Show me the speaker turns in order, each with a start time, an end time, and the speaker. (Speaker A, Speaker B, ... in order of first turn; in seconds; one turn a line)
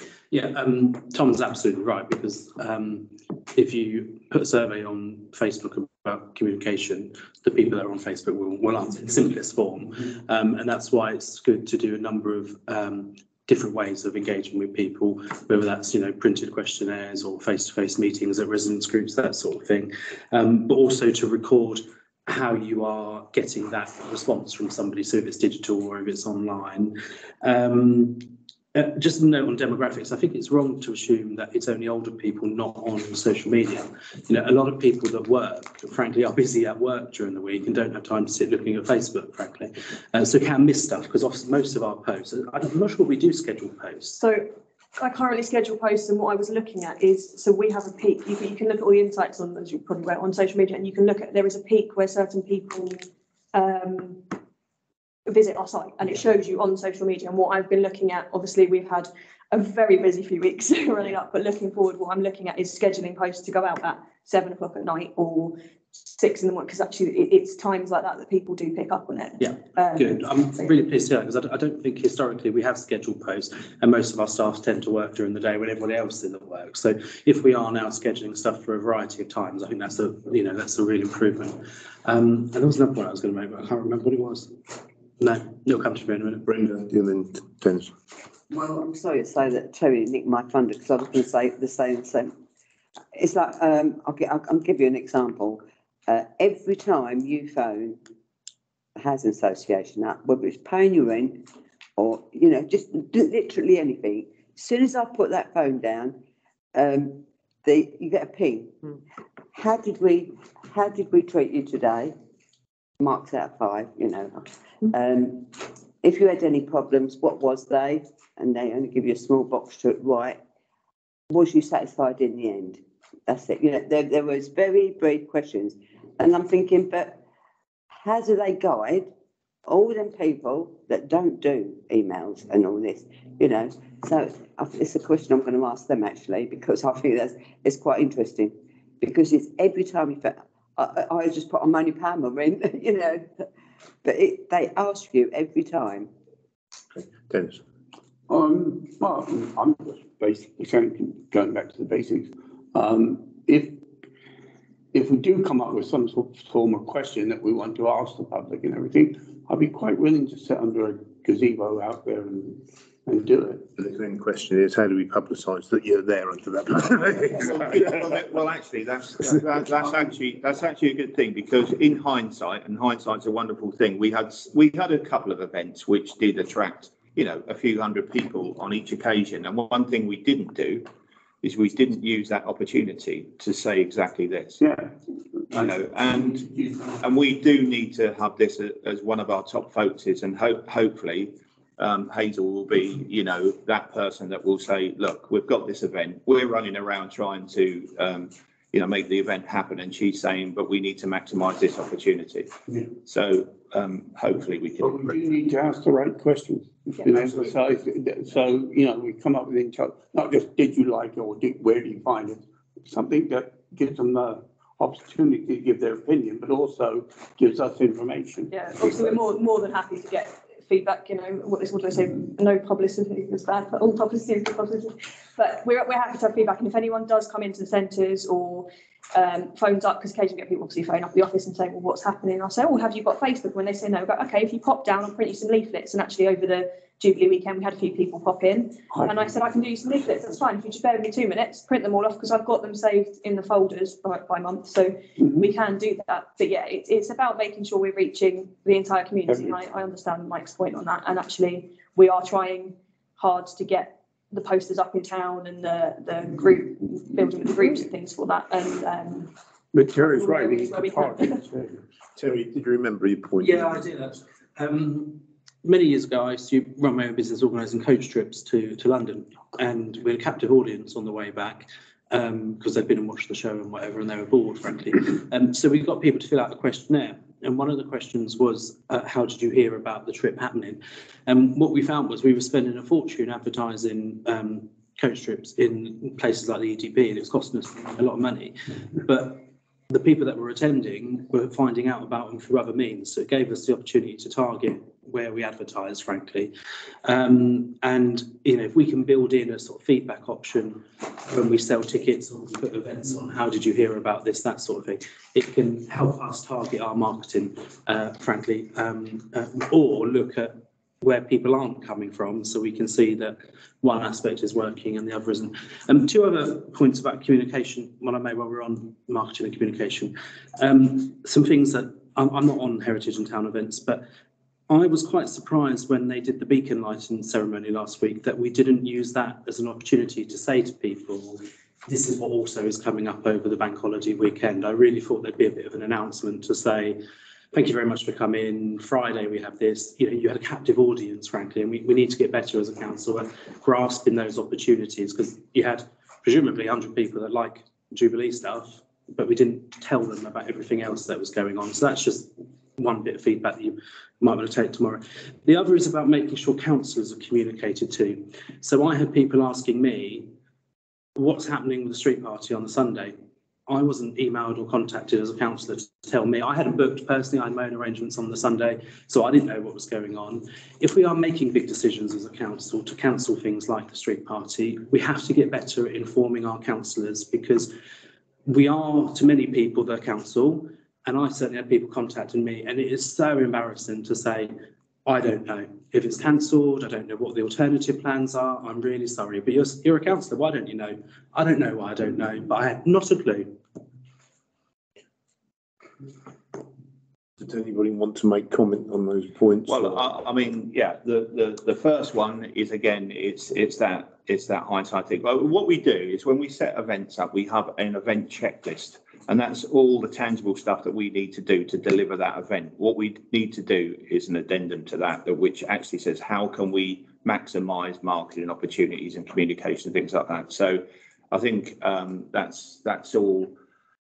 Speaker A: 0.3-44.2
Speaker B: 44.2-54.3
Speaker B: 55.3-70.7
Speaker A: 69.4-84.6
Speaker A: 85.2-86.4
Speaker C: 86.4-87.9
Speaker D: 88.5-92.3
Speaker D: 93.1-98.0
Speaker D: 99.0-101.4
Speaker D: 102.0-106.2
Speaker D: 106.7-108.8
Speaker D: 109.5-112.1
Speaker D: 113.0-120.4
Speaker D: 121.3-127.2
Speaker D: 127.9-129.1
Speaker D: 129.7-143.4
Speaker D: 144.0-146.1
Speaker C: 146.9-147.6
Speaker E: 148.3-153.8
Speaker E: 154.9-163.7
Speaker C: 163.8-168.1
Speaker F: 167.4-180.9
Speaker F: 181.4-184.6
Speaker E: 184.6-184.9
Speaker E: 185.5-186.9
Speaker F: 185.5-205.3
Speaker E: 204.8-219.2
Speaker B: 207.0-207.4
Speaker B: 218.5-259.3
Speaker E: 238.9-239.3
Speaker E: 245.2-245.5
Speaker E: 249.3-249.6
Speaker E: 259.7-261.8
Speaker B: 260.1-261.5
Speaker C: 262.1-263.8
Speaker A: 263.4-296.5
Speaker A: 297.0-324.0
Speaker A: 324.7-337.0
Speaker A: 337.5-360.3
Speaker A: 361.1-363.1
Speaker A: 363.7-377.7
Speaker A: 378.4-384.5
Speaker A: 385.1-393.6
Speaker C: 397.4-400.1
Speaker F: 399.7-423.5